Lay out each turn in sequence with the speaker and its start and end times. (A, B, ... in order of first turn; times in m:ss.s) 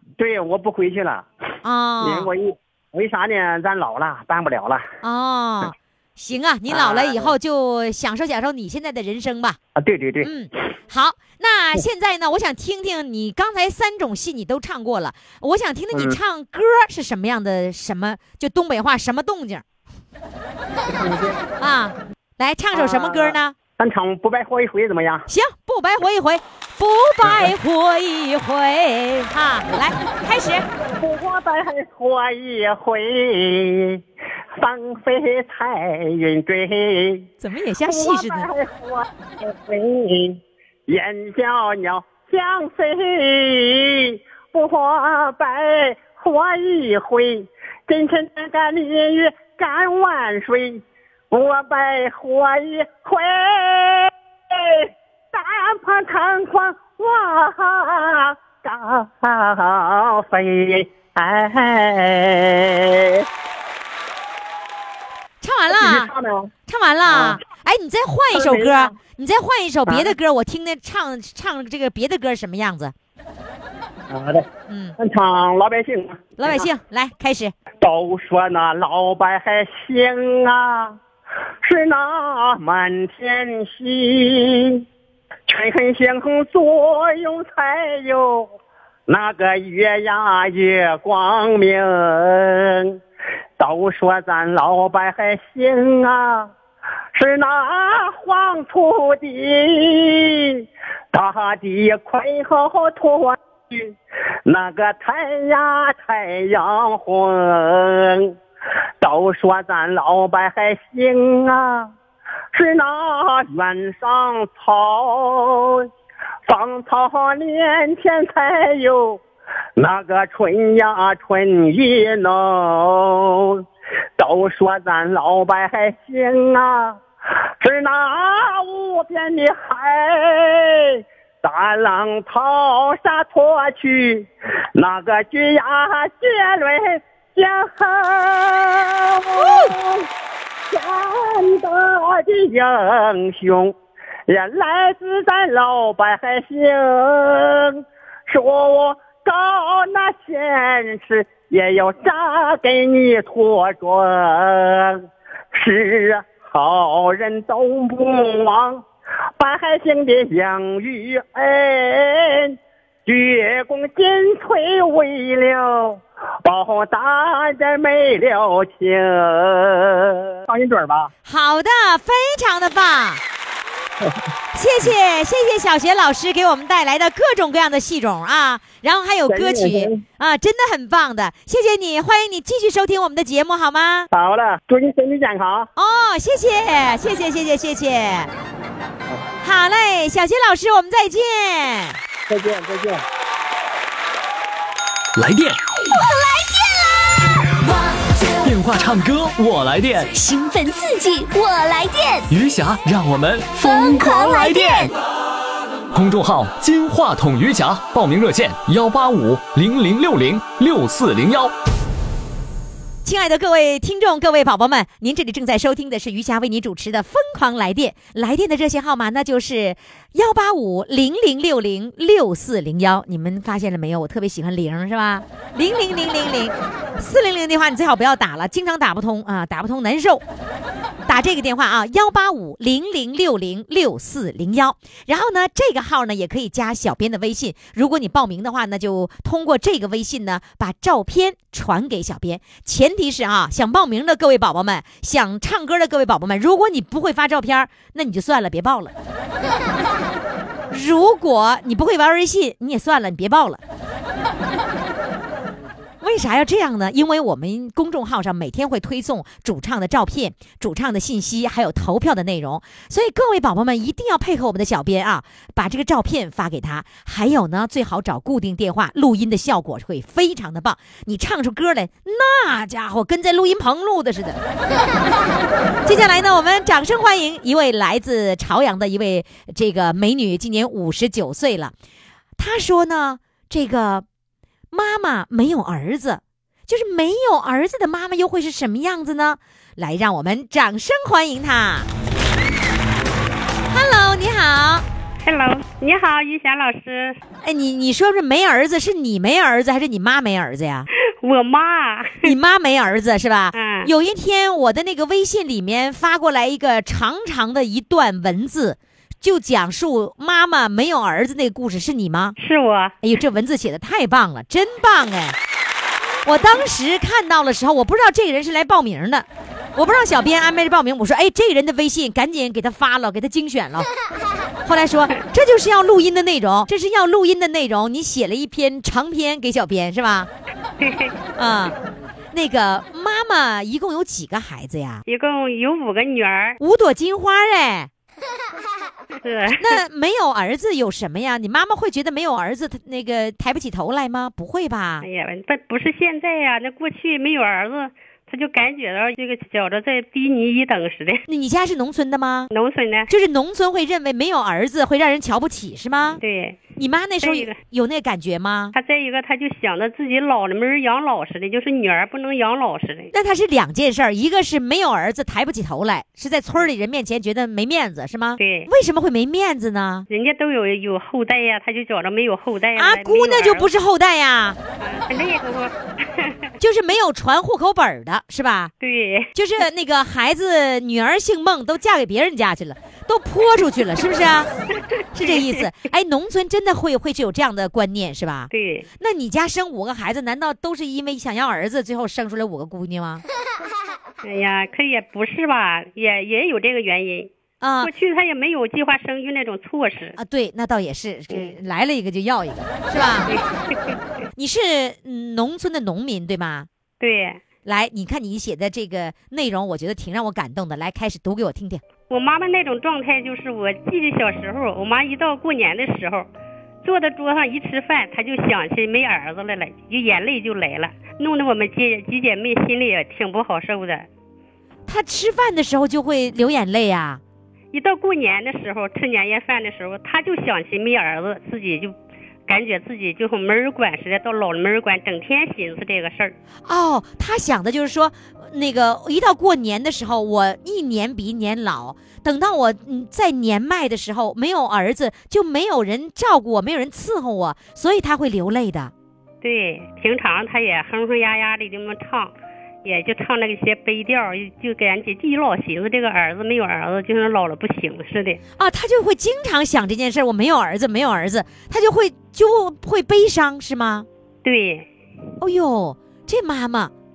0:00.2-0:01.3 A
0:01.6-0:02.3 B
0:02.0-0:04.8 A
0:05.0-0:09.6 B
0:06.7-0:07.3 A
0:09.8-0:10.3 A
0:10.2-0:19.6 B
0:15.9-0:16.2 A
0:20.9-0:21.4 A
0:21.6-0:23.6 B
0:22.7-0:25.3 A
0:25.3-0:30.6 B
0:27.2-0:27.5 A
0:31.0-0:34.0 A
0:34.6-0:37.3 A
0:37.4-0:38.5 B
0:37.8-1:03.3 A
1:05.4-1:06.1 B
1:05.7-1:06.5 A
1:06.7-1:12.9 B
1:07.1-1:07.4 A
1:08.3-1:08.9 A
1:09.9-1:10.1 A
1:14.1-1:16.7 A
1:14.7-1:15.0 B
1:16.4-1:17.5 B
1:17.8-1:21.0 A
1:21.6-1:24.8 A
1:25.5-1:28.5 A
1:29.1-1:33.0 A
1:33.6-1:36.5 A
1:37.1-1:44.0 A
1:44.5-1:48.4 A
1:49.0-1:51.9 A
1:52.5-1:55.9 A
1:56.5-1:59.2 A
1:59.8-2:03.6 A
2:04.2-2:07.0 A
2:07.6-2:20.1 A
2:19.4-2:19.8 B
2:20.7-2:23.8 A
2:24.3-2:35.0 A
2:35.5-2:38.8 A
2:39.4-2:51.1 A
2:51.2-2:53.2 B
2:54.5-3:04.1 B
2:59.3-3:00.0 A
3:04.1-3:05.7 A
3:05.8-3:08.3 B
3:09.4-3:12.0 B
3:12.3-3:13.0 A
3:15.2-3:15.6 C
3:15.9-3:18.5 D
3:18.4-3:20.2 C
3:20.1-3:22.3 D
3:22.3-3:24.9 C
3:23.6-3:24.9 D
3:25.9-3:31.5 C
3:33.0-3:50.2 B
3:51.1-4:08.9 B
4:10.7-4:13.6 B
4:16.0-4:34.4 B
4:35.8-4:41.7 B
4:42.4-4:44.0 B
4:44.7-4:51.9 B
4:53.7-4:54.8 B
4:55.2-4:57.2 E
4:57.4-5:00.9 B
5:01.2-5:02.3 E
5:02.2-5:12.4 B
5:03.5-5:03.9 E
5:12.4-5:13.0 E
5:13.0-5:15.4 B
5:16.2-5:23.9 B
5:24.6-5:30.3 B
5:30.8-5:31.2 E
5:31.4-5:31.8 B
5:32.3-5:35.0 B
5:35.1-5:36.6 E
5:36.6-5:37.9 B
5:39.2-5:39.8 E
5:39.6-5:45.1 B
5:45.0-5:51.2 E
5:51.3-5:52.5 B
5:52.5-5:53.1 E
5:53.1-5:56.2 B
5:56.2-5:56.6 E
5:56.8-5:58.7 B
5:57.2-5:57.6 E
5:58.7-6:03.1 E
6:03.1-6:10.1 B
6:08.4-6:08.7 E
6:10.1-6:13.7 E
6:12.8-6:14.6 B
6:14.8-6:16.4 E
6:16.6-6:18.7 B
6:18.8-6:19.3 E
6:19.4-6:24.5 B
6:25.1-6:33.2 B
6:25.2-6:25.7 E
6:28.5-6:28.9 E
6:34.2-6:40.2 E
6:37.6-6:37.9 B
6:40.2-6:43.3 B
6:41.3-6:41.6 E
6:43.3-6:43.9 E
6:44.4-6:46.7 B
6:47.0-6:47.4 E
6:47.6-6:51.8 B
6:52.1-6:56.3 E
6:56.8-7:04.1 E
7:04.9-7:07.2 B
7:07.7-7:12.0 E
7:12.5-7:16.4 E
7:16.6-7:28.9 B
7:29.4-7:32.3 E
7:32.8-7:38.4 E
7:38.6-7:44.1 B
7:44.4-7:44.9 E
7:45.4-7:46.9 B